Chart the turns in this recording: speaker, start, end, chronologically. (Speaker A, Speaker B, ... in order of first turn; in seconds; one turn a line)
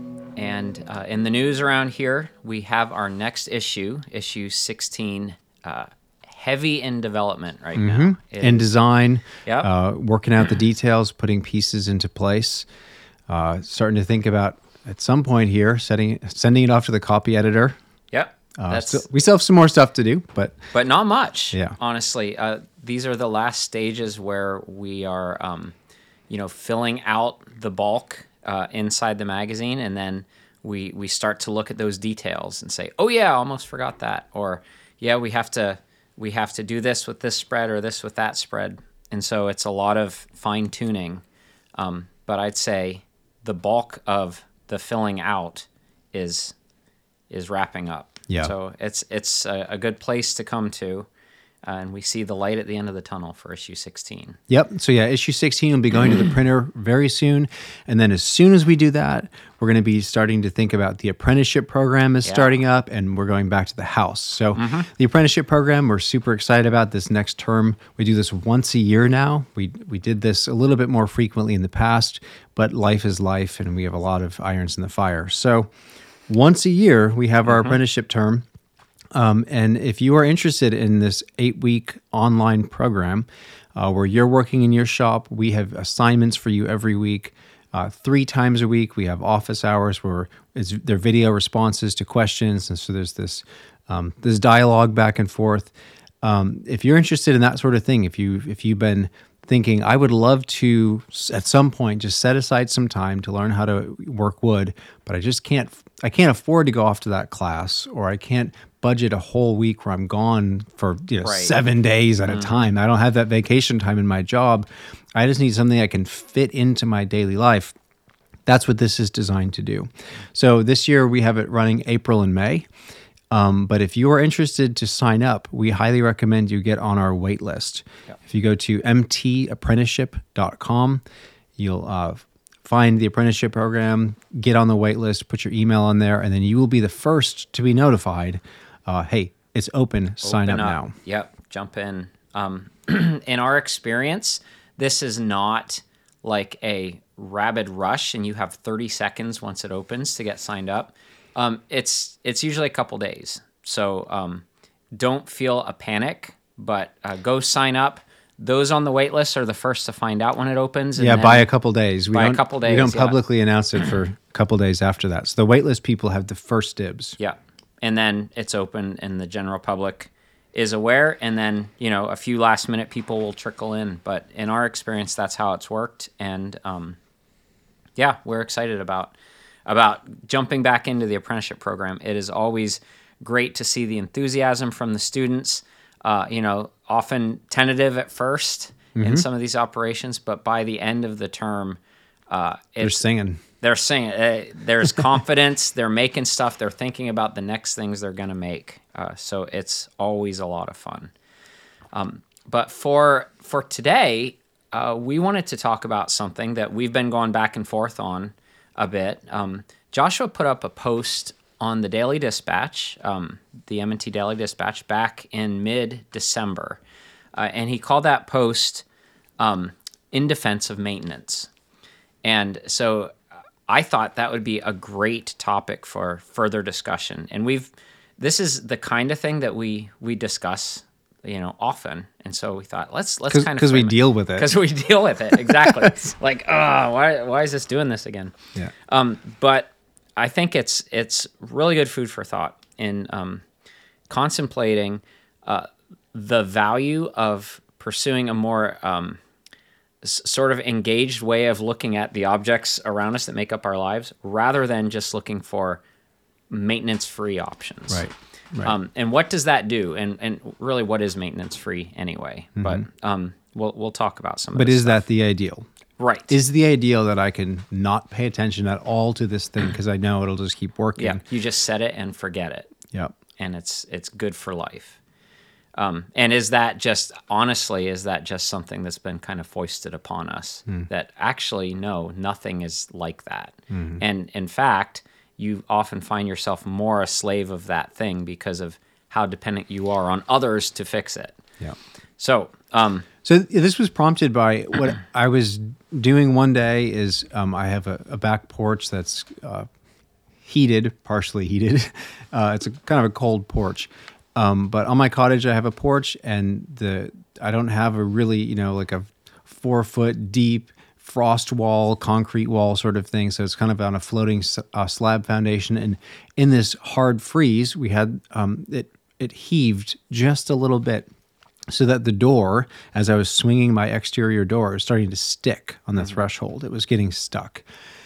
Speaker A: 0.3-8.7
Speaker B: 7.8-12.7
Speaker B: 13.3-17.8
Speaker A: 18.1-19.1
Speaker B: 18.6-20.6
Speaker A: 20.7-25.7
Speaker B: 21.5-21.8
Speaker A: 26.3-41.2
Speaker A: 41.8-46.5
Speaker A: 47.3-51.1
Speaker B: 48.3-48.5
Speaker A: 51.6-54.4
Speaker B: 54.5-75.7
Speaker A: 62.2-62.5
Speaker A: 64.5-64.9
Speaker B: 76.3-78.4
Speaker A: 77.5-77.8
Speaker B: 79.1-117.7
Speaker A: 111.2-111.5
Speaker A: 112.3-112.6
Speaker B: 118.5-122.7
Speaker B: 123.3-131.0
Speaker B: 131.6-140.9
Speaker A: 140.2-154.4
Speaker A: 154.9-161.5
Speaker B: 161.0-167.2
Speaker A: 162.1-163.2
Speaker A: 167.2-177.0
Speaker A: 178.0-179.1
Speaker A: 179.7-191.8
Speaker B: 188.9-189.2
Speaker A: 192.3-193.0
Speaker B: 192.8-193.4
Speaker A: 193.6-201.1
Speaker A: 201.9-216.8
Speaker A: 217.3-218.8
Speaker A: 219.4-221.5
Speaker A: 222.2-223.1
Speaker A: 223.7-238.3
Speaker B: 233.3-234.5
Speaker B: 235.3-235.9
Speaker A: 238.9-243.4
Speaker A: 244.1-249.2
Speaker A: 250.0-255.8
Speaker A: 256.5-258.1
Speaker B: 257.9-258.8
Speaker A: 258.6-265.0
Speaker B: 262.6-262.8
Speaker B: 264.5-265.6
Speaker A: 266.0-266.3
Speaker B: 266.3-271.2
Speaker A: 271.0-272.7
Speaker A: 273.4-275.0
Speaker A: 275.8-291.4
Speaker B: 283.7-284.0
Speaker A: 292.2-293.1
Speaker B: 293.2-299.7
Speaker B: 300.4-321.1
Speaker B: 321.7-327.6